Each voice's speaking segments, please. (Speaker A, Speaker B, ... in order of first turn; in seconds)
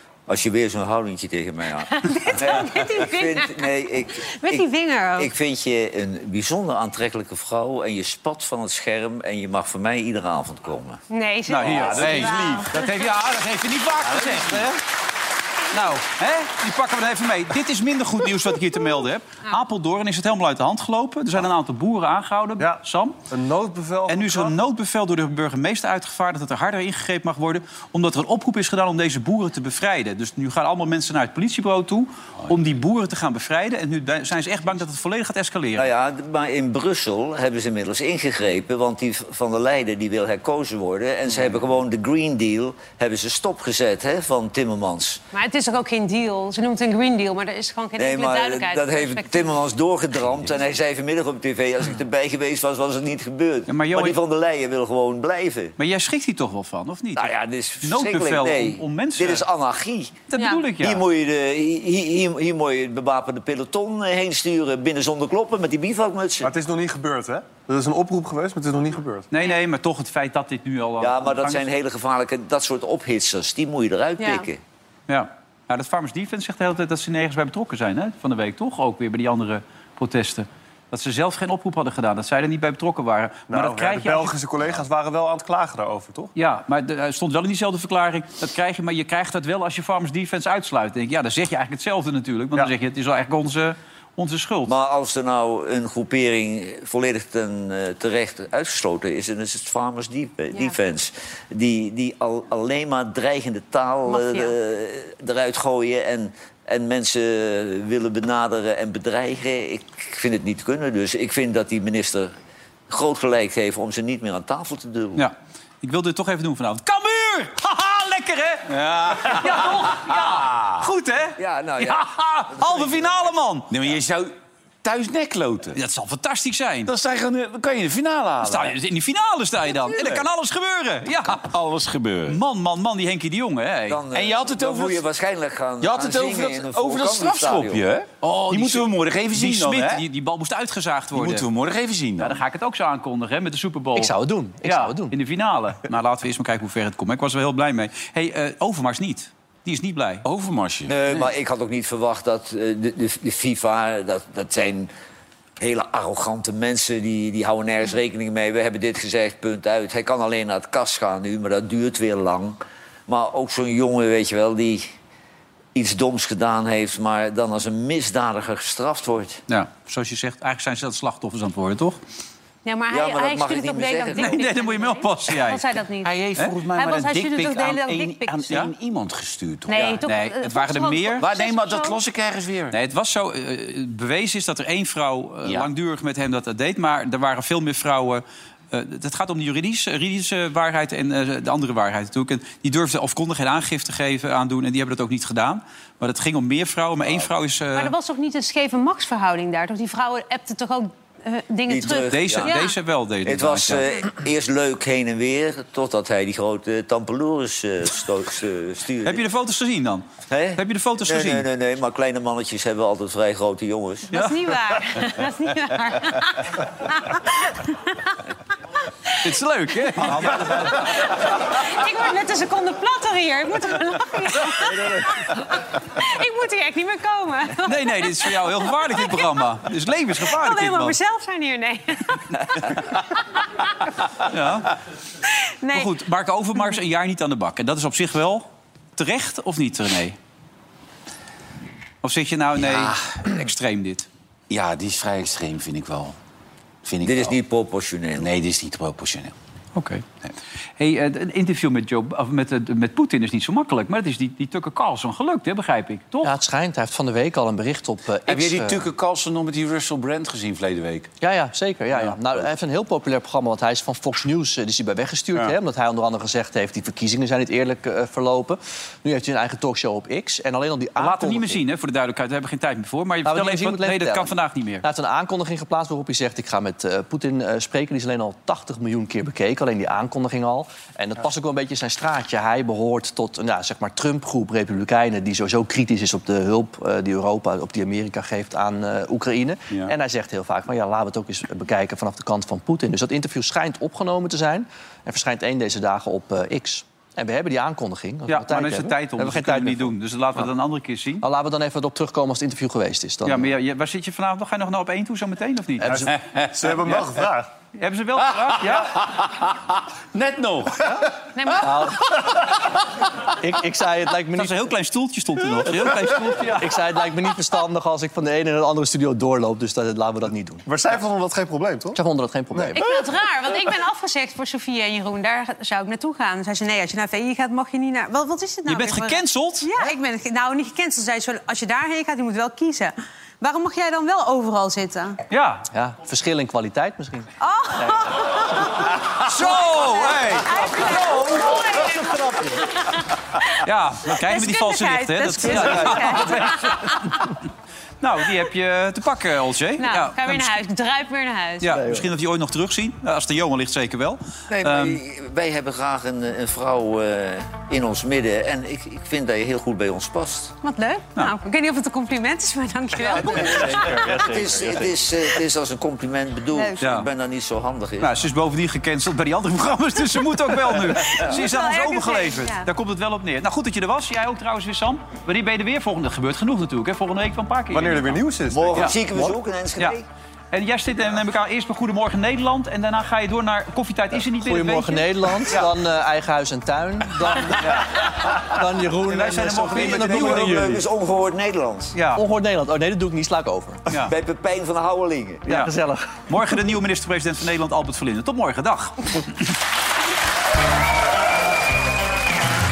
Speaker A: 0.3-11.0, 35.8-45.2, 48.0-55.7, 57.1-60.2, 60.8-66.5, 71.0-74.6, 94.7-112.3, 112.9-115.2, 121.4-123.1, 133.9-137.8, 150.9-154.9, 155.6-164.9, 165.7-169.4, 172.9-174.4, 179.8-180.0, 201.7-202.5, 203.2-209.2, 210.3-214.1, 247.0-248.3, 354.5-360.5, 363.1-368.1, 378.5-380.1, 389.6-391.9, 394.0-395.5
Speaker B: 1.9-3.7, 4.3-5.3, 11.1-12.9, 45.3-49.5, 60.3-60.6, 74.2-74.5, 104.0-104.5, 172.6-176.1, 176.7-178.5, 179.7-182.0, 197.7-202.7, 214.1-218.2, 220.5-229.3, 230.2-233.8, 235.3-235.9, 311.3-311.7, 322.7-335.2, 337.4-347.2, 349.8-351.8, 360.6-364.2, 366.5-366.8, 370.9-372.7
Speaker C: 11.5-14.8, 15.7-23.2, 24.1-35.9, 53.7-54.2, 55.8-59.5, 60.3-61.0, 69.3-71.7, 75.1-84.3, 86.3-94.7, 115.2-123.7, 125.7-126.9, 128.4-131.4, 132.3-134.0, 138.5-141.4, 142.2-150.2, 169.5-172.0, 174.2-175.6, 180.1-181.2, 182.7-197.9, 202.1-203.8, 209.0-211.4, 214.1-215.0, 219.2-221.1, 227.6-231.0, 234.2-234.8, 235.7-238.4, 239.0-240.2, 242.0-244.1, 249.7-250.0, 250.8-256.3, 271.0-274.8, 298.3-301.2, 303.2-306.0, 307.7-309.0, 314.3-316.8, 328.6-329.7, 335.3-335.6, 339.2-341.6, 343.6-347.3, 348.0-350.6, 351.6-355.0, 366.8-367.1, 368.0-378.9, 380.5-385.7, 387.5-388.4, 389.1-390.6, 391.9-392.2, 396.3-399.4
Speaker D: 11.8-12.8, 41.3-41.6, 118.7-120.8, 123.7-124.3, 124.8-125.8, 126.8-128.8, 129.7-130.3, 131.2-132.4, 134.1-135.0, 135.8-140.0, 141.1-142.4, 150.2-150.9, 176.0-179.9, 181.2-182.8, 242.6-243.3, 244.5-246.2, 246.8-247.4, 248.2-249.3, 258.3-261.1, 308.2-309.6, 310.1-311.6
Speaker E: 22.6-24.5, 66.4-69.3, 83.5-86.3, 305.9-307.5, 320.6-322.0, 322.5-322.8, 377.7-379.4
Speaker F: 143.9-145.1, 256.2-258.9, 261.2-271.6, 273.2-300.5, 301.2-303.5, 311.6-312.5, 313.3-314.7, 315.9-320.7, 321.9-322.9, 335.7-338.3, 345.5-346.5, 363.1-365.1, 384.2-390.8, 392.1-393.9, 395.5-396.4